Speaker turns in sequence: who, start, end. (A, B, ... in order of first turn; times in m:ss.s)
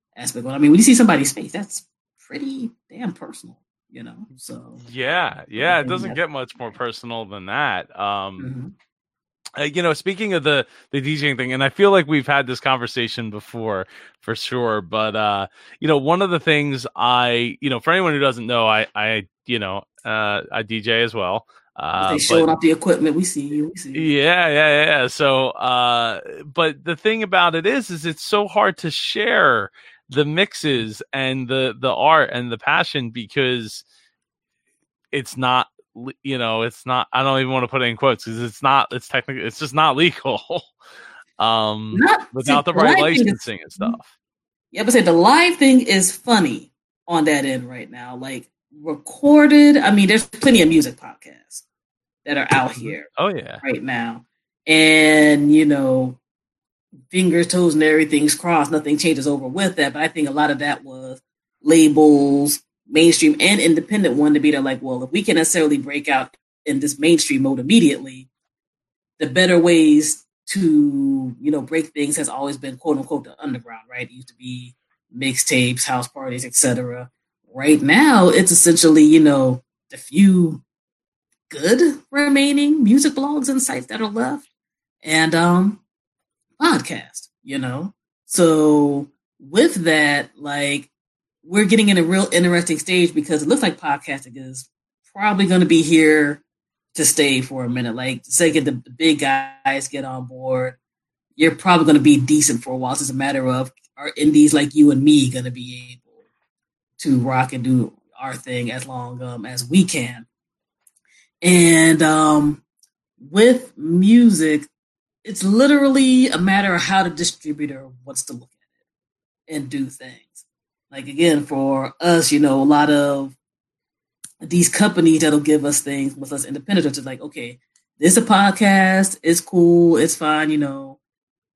0:00.2-0:04.8 A
0:04.8-0:08.5 B
0:05.6-0:06.2 A
0:08.4-0:08.7 A
0:09.6-0:22.5 B
0:22.0-0:24.1 A
0:23.9-0:33.8 B
0:35.1-0:40.7 B
0:41.4-0:44.1 B
0:41.9-0:44.0 A
0:44.7-0:51.6 A
0:52.2-0:53.1 A
0:52.8-0:53.6 B
0:53.6-0:56.2 A
0:57.1-1:08.3 A
1:09.2-1:20.6 A
1:21.5-1:24.5 A
1:25.0-1:25.8 A
1:26.6-1:30.9 A
1:31.4-1:36.4 A
1:36.9-1:40.8 A
1:41.4-1:46.1 A
1:47.0-1:50.3 A
1:51.4-1:52.6 A
1:53.2-1:54.7 A
1:55.2-1:58.6 A
1:59.5-2:03.4 A
2:04.4-2:11.0 A